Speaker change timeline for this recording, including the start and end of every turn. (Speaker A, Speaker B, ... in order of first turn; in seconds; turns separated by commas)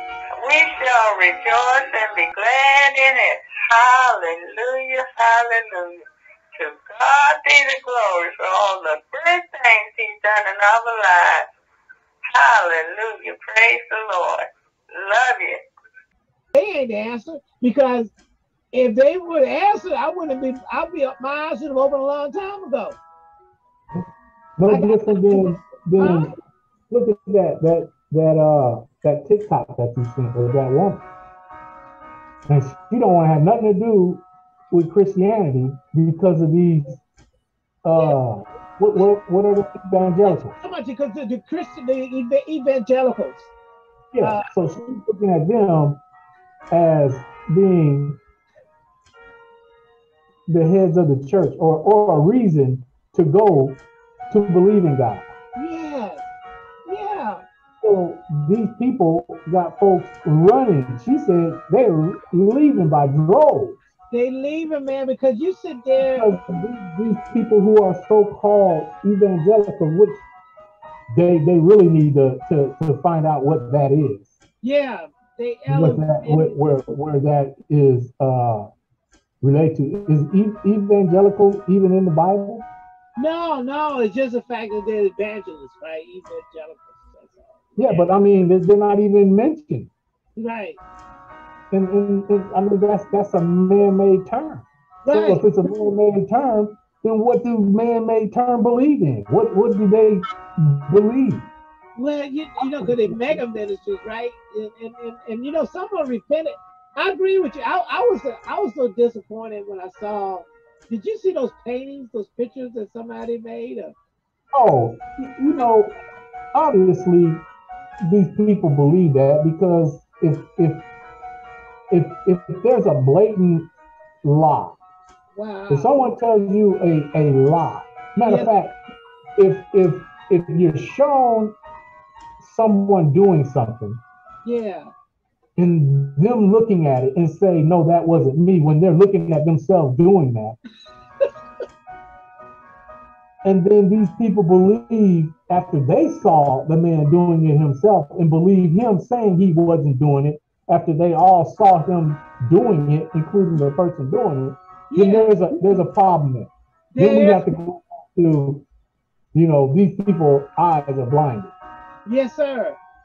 Speaker A: 0.4-11.5, Speaker A: 12.3-15.6, Speaker B: 16.5-18.1, Speaker B: 18.7-23.0, Speaker C: 24.6-26.3, Speaker B: 24.7-26.3, Speaker C: 26.9-31.0, Speaker C: 32.5-37.0, Speaker C: 37.8-40.5, Speaker B: 40.2-43.5, Speaker C: 44.1-46.0, Speaker B: 44.2-44.5, Speaker C: 46.7-48.2, Speaker C: 50.5-55.3, Speaker B: 55.6-56.3, Speaker B: 56.9-57.4, Speaker C: 57.8-63.9, Speaker B: 64.1-66.4, Speaker C: 66.0-70.2, Speaker C: 71.1-74.3, Speaker B: 74.6-76.6, Speaker C: 75.7-78.7, Speaker C: 79.4-82.7, Speaker B: 83.2-88.1, Speaker C: 87.8-89.9, Speaker B: 90.4-90.8, Speaker C: 91.7-101.5, Speaker B: 95.0-95.4, Speaker B: 102.0-114.0, Speaker C: 102.6-103.4, Speaker C: 114.5-116.0, Speaker C: 116.5-117.5, Speaker C: 118.0-120.9, Speaker C: 121.9-123.7, Speaker C: 124.2-124.8, Speaker B: 125.3-126.0, Speaker C: 125.7-128.8, Speaker B: 128.3-128.5, Speaker C: 129.4-131.6, Speaker C: 132.4-134.0, Speaker B: 134.4-134.9, Speaker C: 135.6-140.6, Speaker C: 143.4-158.7, Speaker B: 154.9-155.8, Speaker B: 156.9-157.5, Speaker C: 159.3-161.5, Speaker B: 162.1-162.8